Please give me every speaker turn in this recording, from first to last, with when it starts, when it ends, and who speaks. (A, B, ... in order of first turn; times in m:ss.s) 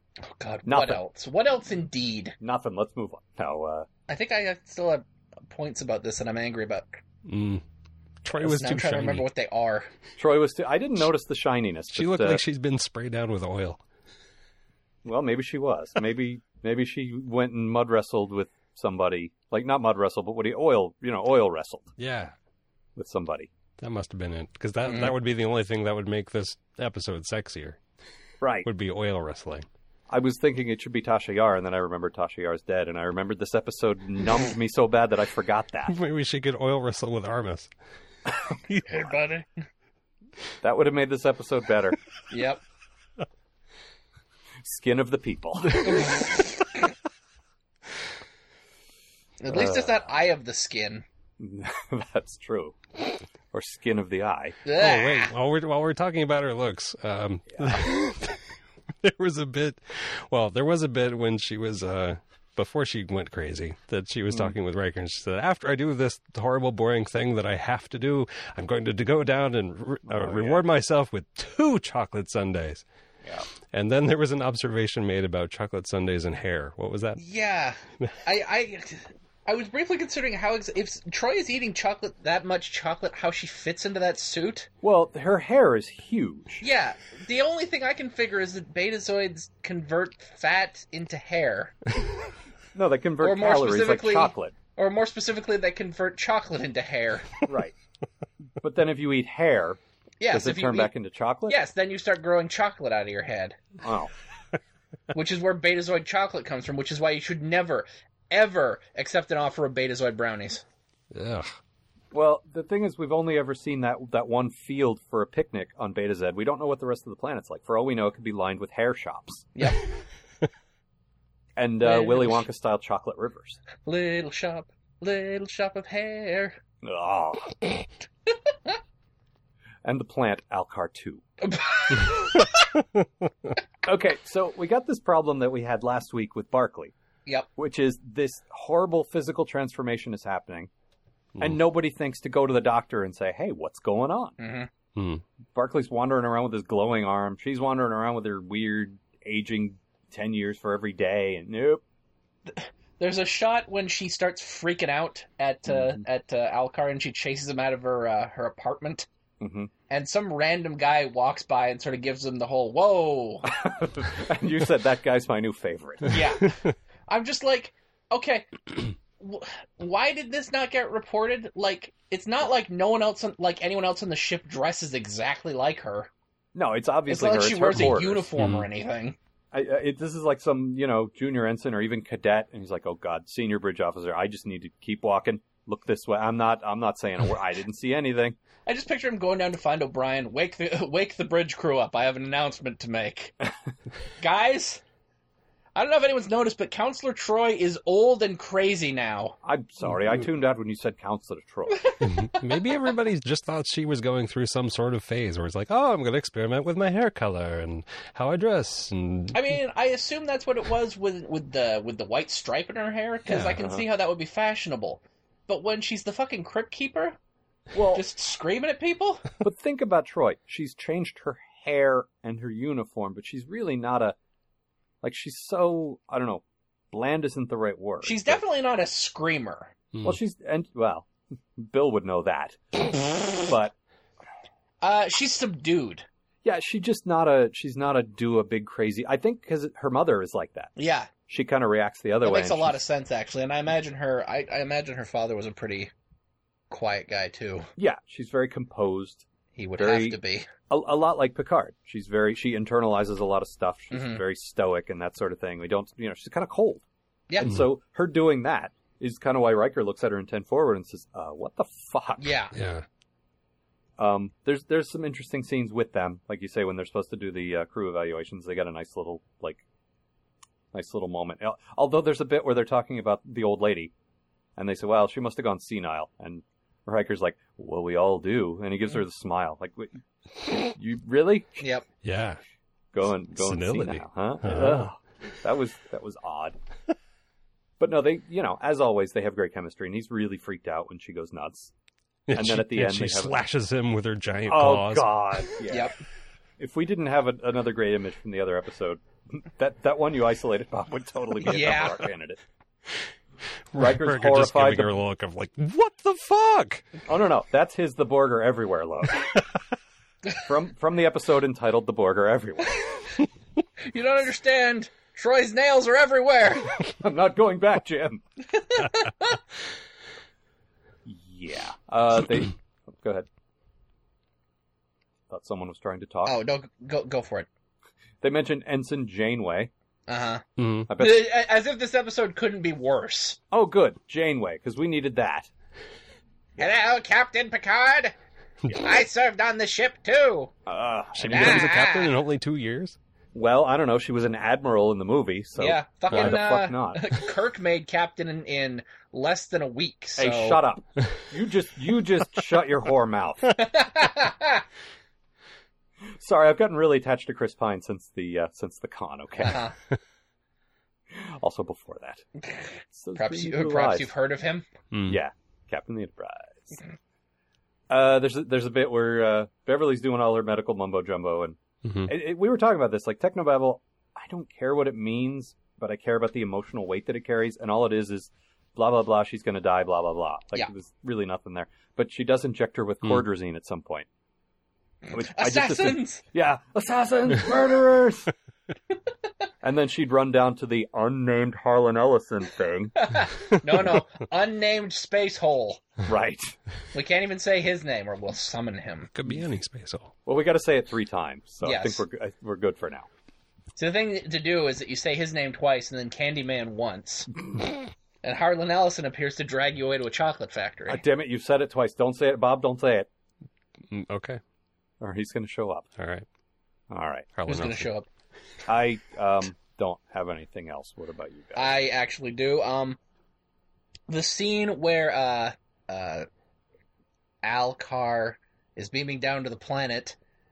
0:00.2-0:02.4 A
0:00.7-0:01.0 B
0:02.4-0:03.9 B
0:04.1-0:07.0 A
0:07.3-0:07.6 C
0:08.2-0:09.3 C
0:08.4-0:09.9 A
0:10.2-0:12.4 B
0:11.9-0:13.8 C
0:15.0-0:21.9 B
0:22.0-0:22.3 C
0:23.0-0:23.5 B
0:23.8-0:27.8 C
0:24.9-0:25.1 A
0:28.4-0:28.7 B
0:28.6-0:29.6 C
0:30.1-0:36.0 B
0:35.9-0:37.7 C
0:38.9-0:39.5 A
0:40.6-0:42.0 B
0:42.3-0:42.6 A
0:44.6-0:46.1 B
0:49.4-0:51.0 A
0:49.5-0:50.0 B
0:51.4-0:52.8 B
0:53.5-0:54.6 B
0:54.6-0:55.3 A
0:54.8-0:58.4 C
0:57.6-0:58.0 B
0:59.0-1:12.8 C
1:10.1-1:10.6 B
1:13.7-1:17.2 C
1:17.2-1:24.7 A
1:24.8-1:26.6 B
1:26.6-1:31.8 A
1:32.7-1:34.6 B
1:33.2-1:37.4 A
1:37.4-1:37.8 B
1:38.6-1:41.6 B
1:40.2-1:40.9 A
1:41.5-1:43.6 A
1:43.8-1:44.1 B
1:45.1-1:50.6 A
1:51.1-1:51.5 C
1:52.1-1:59.5 B
1:59.6-1:59.8 A
2:01.6-2:03.6 B
2:01.8-2:02.4 A
2:03.8-2:06.6 A
2:06.8-2:07.7 B
2:09.8-2:11.2 B
2:11.4-2:12.5 A
2:13.8-2:16.9 B
2:17.6-2:20.7 B
2:21.4-2:24.4 B
2:24.4-2:24.7 A
2:25.0-2:25.2 C
2:25.6-2:31.8 B
2:32.5-2:39.1 A
2:35.7-2:36.0 B
2:39.4-2:39.7 B
2:39.9-2:43.5 A
2:43.4-2:46.2 B
2:46.1-2:48.5 A
2:49.2-2:56.1 A
2:56.6-2:58.3 B
2:57.1-2:59.2 A
2:58.4-2:58.6 C
2:59.5-3:08.4 B
3:08.7-3:13.3 A
3:14.2-3:14.8 A
3:15.8-3:19.4 A
3:19.4-3:22.0 B
3:21.7-3:22.1 A
3:22.0-3:29.4 C
3:29.3-3:37.2 A
3:33.6-3:33.8 B
3:37.7-3:38.0 B
3:37.9-3:39.3 A
3:39.4-3:44.2 B
3:45.0-3:48.4 B
3:48.0-3:49.7 A
3:50.0-3:53.7 B
3:54.8-3:56.1 A
3:56.4-4:02.8 B
4:00.8-4:01.1 A
4:02.2-4:05.9 A
4:06.7-4:07.7 A
4:07.8-4:09.3 B
4:09.6-4:10.5 A
4:09.8-4:10.2 B
4:10.7-4:16.8 B
4:13.9-4:14.2 A
4:17.4-4:22.4 B
4:22.2-4:22.6 A
4:22.5-4:22.8 C
4:24.0-4:29.6 B
4:30.7-4:33.9 B
4:34.6-4:41.7 B
4:42.0-4:42.4 C
4:42.9-4:46.6 B
4:43.4-4:44.9 C
4:47.8-4:51.7 B
4:52.3-4:55.3 C
4:52.3-4:53.4 B
4:54.5-4:55.9 B
4:55.7-4:55.9 A
4:56.6-5:02.4 B
5:01.4-5:02.1 A
5:03.7-5:06.9 C
5:03.8-5:05.0 B
5:07.1-5:09.4 B
5:10.4-5:13.1 B
5:13.8-5:16.8 A
5:17.0-5:18.2 B
5:18.6-5:19.4 A
5:21.0-5:23.3 B
5:25.3-5:26.4 B
5:26.2-5:27.5 A
5:28.2-5:29.7 B
5:30.1-5:33.4 A
5:30.6-5:30.9 C
5:30.9-5:31.3 B
5:33.5-5:35.5 B
5:36.6-5:38.2 A
5:38.8-5:40.5 A
5:40.7-5:41.8 B
5:41.2-5:43.0 C
5:41.3-5:42.1 A
5:43.3-5:47.2 B
5:45.6-5:50.6 A
5:50.2-5:53.5 B
5:53.6-5:54.6 A
5:56.2-5:59.6 B
5:59.4-5:59.7 A
6:01.1-6:02.3 B
6:02.4-6:04.7 A
6:02.9-6:04.1 B
6:04.9-6:05.2 C
6:05.1-6:06.8 B
6:07.9-6:24.1 B
6:11.8-6:12.1 C
6:25.1-6:26.2 A
6:25.1-6:28.3 B
6:29.6-6:33.0 B
6:33.0-6:35.8 A
6:36.1-6:36.6 B
6:36.9-6:39.1 A
6:39.1-6:40.1 C
6:40.3-6:43.1 B
6:41.6-6:42.0 A
6:43.8-6:47.3 A
6:48.2-6:51.0 A
6:50.9-6:53.1 B
6:53.9-6:54.4 C
6:55.0-6:55.9 B
6:56.0-6:56.2 C
6:56.9-6:57.3 B
6:57.4-6:57.9 C
6:57.5-6:58.1 A
6:58.7-7:01.8 B
7:01.6-7:03.0 A
7:04.1-7:06.3 A
7:07.4-7:10.2 A